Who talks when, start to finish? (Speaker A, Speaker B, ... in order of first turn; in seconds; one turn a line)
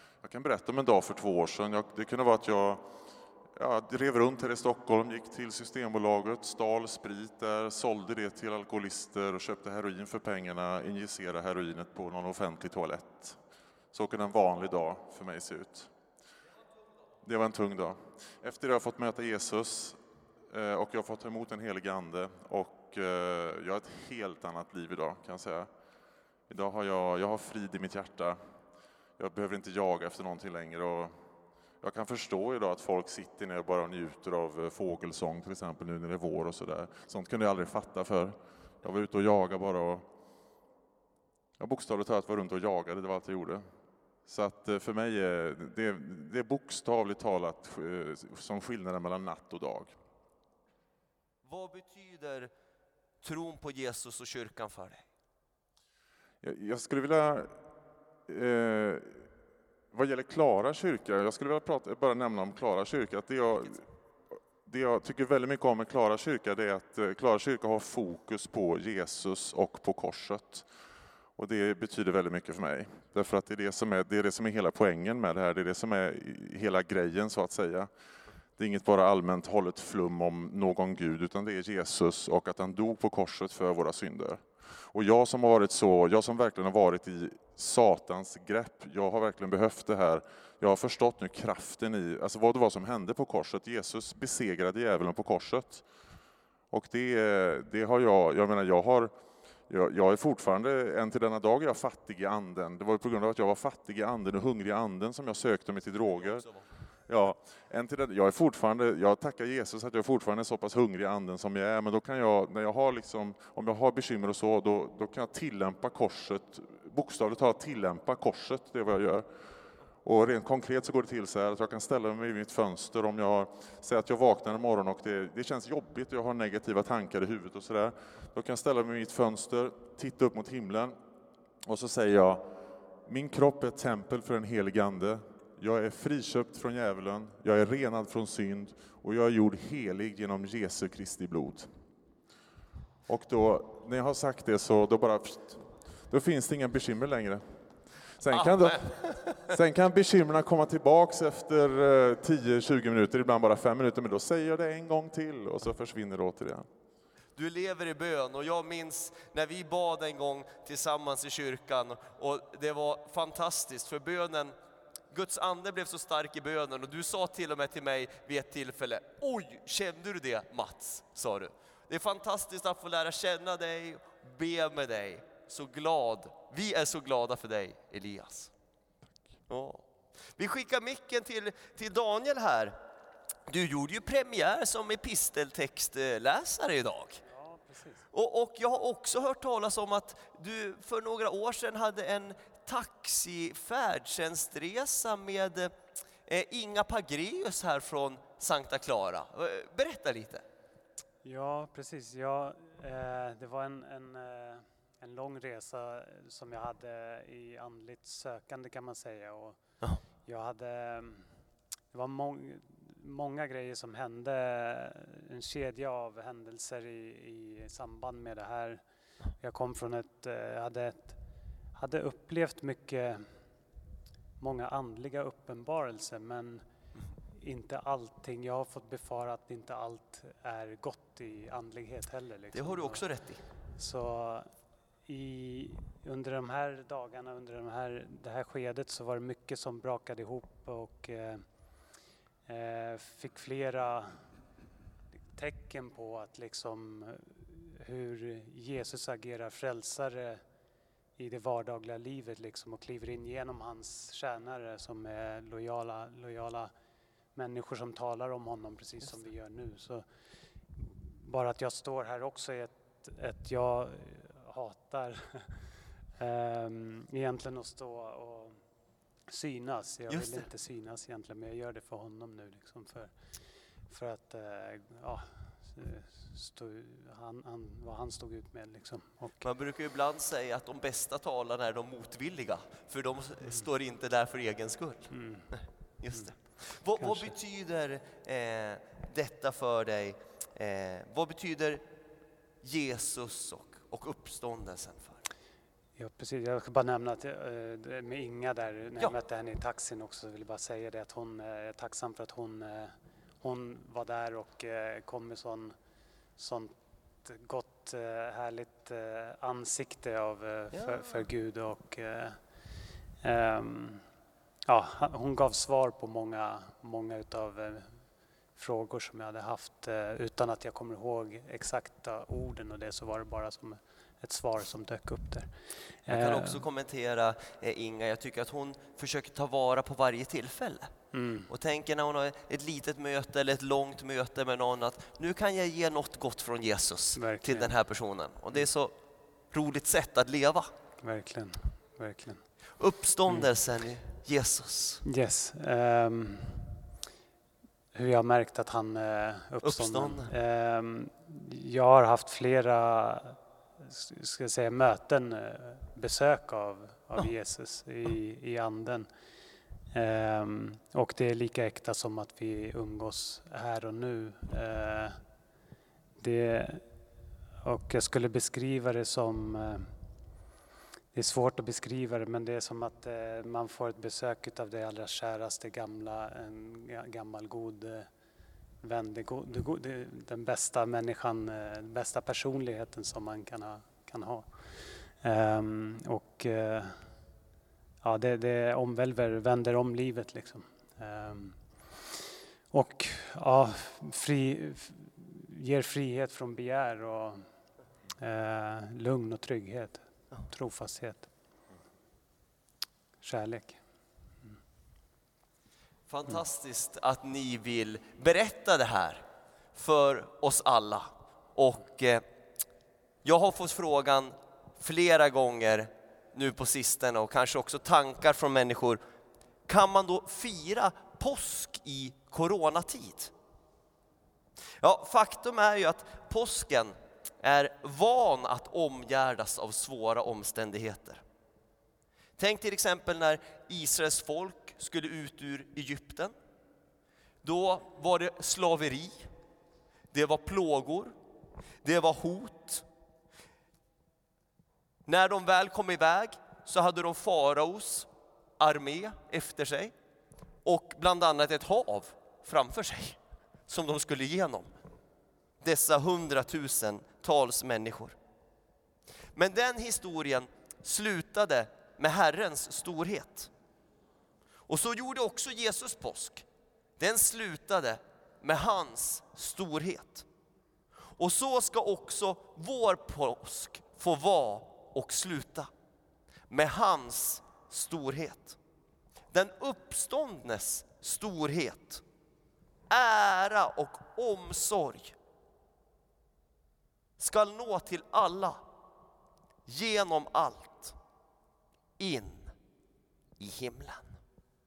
Speaker A: 0.2-2.8
Speaker A: 3.6-13.4
Speaker A: 13.9-15.9
Speaker A: 17.2-20.0
Speaker A: 20.5-25.7
Speaker A: 26.5-28.4
Speaker A: 29.2-31.1
Speaker A: 31.8-40.1
Speaker A: 41.6-43.6
Speaker A: 44.3-49.9
Speaker B: 51.5-52.5
Speaker B: 53.2-55.1
Speaker A: 56.4-57.5
Speaker A: 58.3-59.3
Speaker A: 59.9-63.8
Speaker A: 64.7-70.7
Speaker A: 71.4-77.9
Speaker A: 78.6-95.8
Speaker A: 96.7-99.1
Speaker A: 99.7-106.5
Speaker B: 106.2-106.7
Speaker A: 107.1-119.3
Speaker A: 120.0-131.0
Speaker A: 131.7-132.5
Speaker A: 133.1-141.7
Speaker A: 143.1-147.4
Speaker A: 148.2-156.7
Speaker B: 148.3-149.5
Speaker B: 157.4-164.6
Speaker B: 165.1-178.5
Speaker B: 179.5-182.8
Speaker B: 183.5-187.2
Speaker C: 187.3-188.1
Speaker B: 188.1-195.7
Speaker B: 196.3-200.4
Speaker C: 201.2-209.6
Speaker C: 210.2-211.4
Speaker C: 211.9-218.8
Speaker C: 219.4-221.2
Speaker C: 221.8-223.3
Speaker C: 224.4-226.7
Speaker C: 227.3-233.0
Speaker B: 232.5-233.4
Speaker C: 233.8-234.5
Speaker C: 235.1-241.4
Speaker C: 242.5-244.2
Speaker C: 245.3-250.4
Speaker C: 251.2-256.7
Speaker C: 257.4-260.1
Speaker C: 260.7-268.6
Speaker C: 269.3-273.2
Speaker B: 270.1-270.5
Speaker C: 273.9-279.4
Speaker B: 279.4-291.8
Speaker C: 285.1-285.5
Speaker C: 287.0-287.3
Speaker B: 292.6-295.2
Speaker C: 296.0-305.8
Speaker C: 306.4-312.4
Speaker B: 310.7-311.3
Speaker C: 313.2-314.1
Speaker C: 314.7-318.0
Speaker C: 318.6-326.6
Speaker B: 326.1-330.9
Speaker C: 331.1-331.5
Speaker B: 331.5-338.9
Speaker C: 337.2-337.7
Speaker B: 339.5-340.7
Speaker C: 341.0-342.5
Speaker B: 342.8-345.0
Speaker C: 345.0-346.8
Speaker C: 347.9-359.1
Speaker B: 349.6-350.3
Speaker C: 359.9-365.2
Speaker C: 366.2-366.9
Speaker C: 367.6-369.9
Speaker C: 371.1-378.1
Speaker C: 378.8-387.1
Speaker C: 388.0-397.4
Speaker C: 398.2-401.3
Speaker C: 403.2-403.8
Speaker B: 406.1-409.2
Speaker B: 409.7-412.2
Speaker B: 413.2-419.0
Speaker B: 419.7-423.3
Speaker B: 424.8-431.2
Speaker B: 432.4-436.3
Speaker B: 437.4-439.3
Speaker B: 440.1-441.2
Speaker B: 441.8-442.9
Speaker B: 445.1-448.1
Speaker B: 448.6-449.9
Speaker B: 450.6-454.7
Speaker B: 455.6-458.2
Speaker B: 459.4-463.5
Speaker B: 464.7-466.4
Speaker B: 467.0-470.3
Speaker B: 471.2-475.7
Speaker B: 476.5-478.6
Speaker B: 479.3-482.0
Speaker B: 482.9-485.1
Speaker B: 487.2-488.6
Speaker B: 489.7-491.0
Speaker B: 492.0-492.5
Speaker B: 493.4-494.2